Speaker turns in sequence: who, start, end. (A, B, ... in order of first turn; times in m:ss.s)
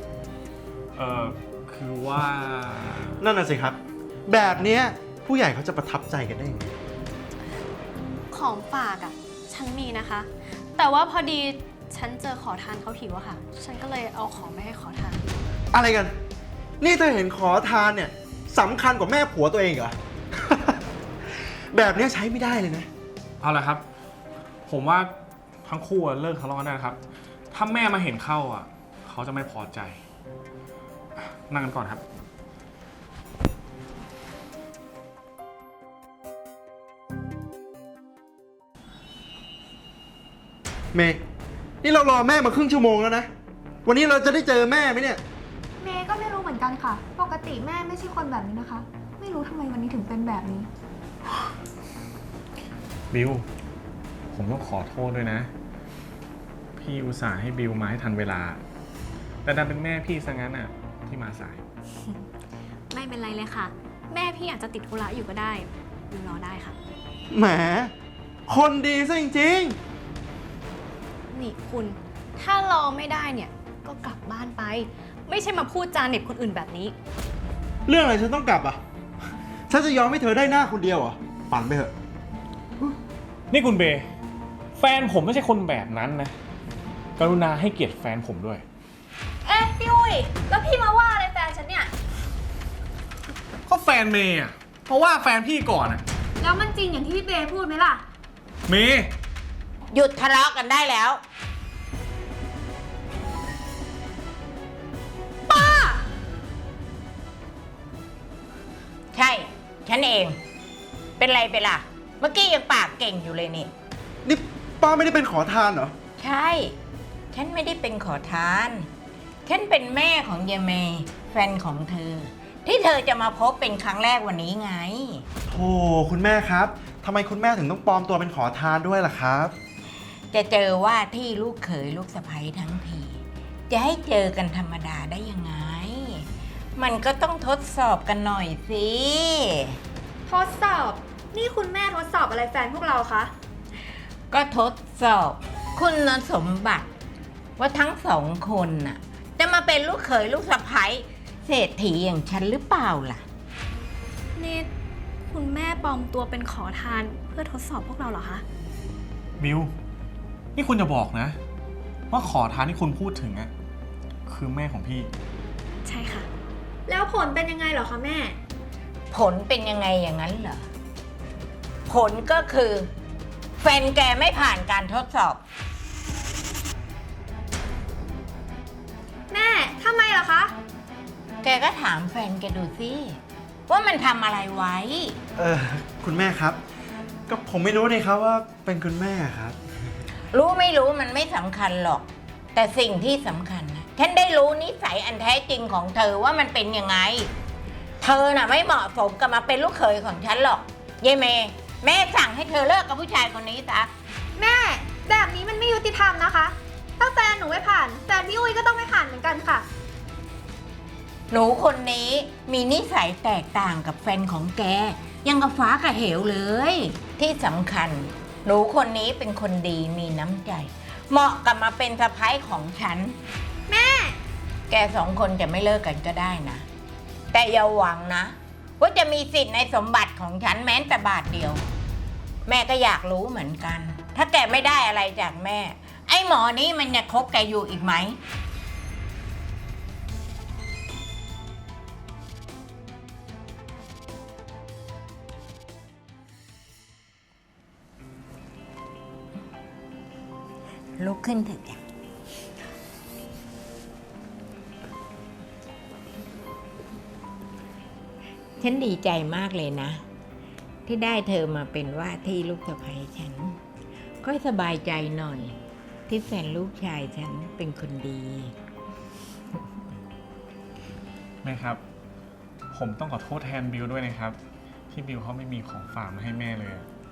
0:01.0-0:03.2 A
0:03.2-0:06.7 B
0:08.3-0:15.2 C
0:15.7-0:16.2 B
0:16.8-0:20.8 B
0:21.7-0:22.9 B
0:23.4-0:23.8 A
0:24.7-0:25.1 A
0:25.6-0:27.0 A
0:27.5-0:30.0 A
0:31.2-0:32.0 A
0:40.9-0:41.2 B
0:41.8-0:43.3 B
0:43.8-0:45.2 B
0:45.8-0:50.7 D
0:53.1-0:53.4 A
0:54.3-0:55.5 A
0:56.8-0:58.6 A
0:59.4-1:01.6 A
1:02.0-1:02.3 C
1:02.9-1:06.8 C
1:07.3-1:07.9 B
1:08.5-1:09.8 B
1:11.3-1:17.0 C
1:17.9-1:18.8 B
1:19.7-1:21.9 B
1:23.5-1:24.1 A
1:24.8-1:26.4 A
1:27.2-1:28.6 A
1:29.4-1:31.9 D
1:33.7-1:36.0 A
1:36.4-1:38.0 D
1:38.7-1:39.1 A
1:39.9-1:41.2 E
1:45.5-1:46.1 D
1:49.1-1:50.4 E
1:51.2-1:53.7 E
1:54.2-1:55.9 B
1:56.2-1:56.8 E
1:57.3-1:58.9 E
1:59.5-2:05.2 E
2:05.5-2:09.6 B
2:10.3-2:19.8 E
2:20.3-2:23.3 D
2:24.3-2:26.9 E
2:27.6-2:33.2 E
2:34.4-2:34.7 C
2:35.3-2:38.4 C
2:39.4-2:39.7 A
2:40.6-2:41.4 A
2:42.1-2:43.5 A
2:44.3-2:45.1 A
2:45.8-2:46.3 C
2:46.9-2:48.4 D
2:49.1-2:50.7 E
2:51.9-2:52.9 E
2:53.6-2:55.4 E
2:59.3-3:00.6 D
3:01.4-3:05.2 E
3:05.4-3:06.6 B
3:07.3-3:09.6 B
3:10.3-3:17.3 E
3:18.0-3:23.9 E
3:24.4-3:29.7 D
3:31.3-3:43.2 E
3:43.7-3:44.2 D
3:44.7-3:46.7 E
3:47.3-3:51.6 E
3:52.5-3:58.2 E
4:11.0-4:11.8 E
4:18.6-4:20.0 E
4:20.9-4:23.6 E
4:24.2-4:25.6 E
4:26.1-4:28.5 E
4:31.4-4:31.8 A
4:32.7-4:34.4 A
4:34.9-4:36.9 A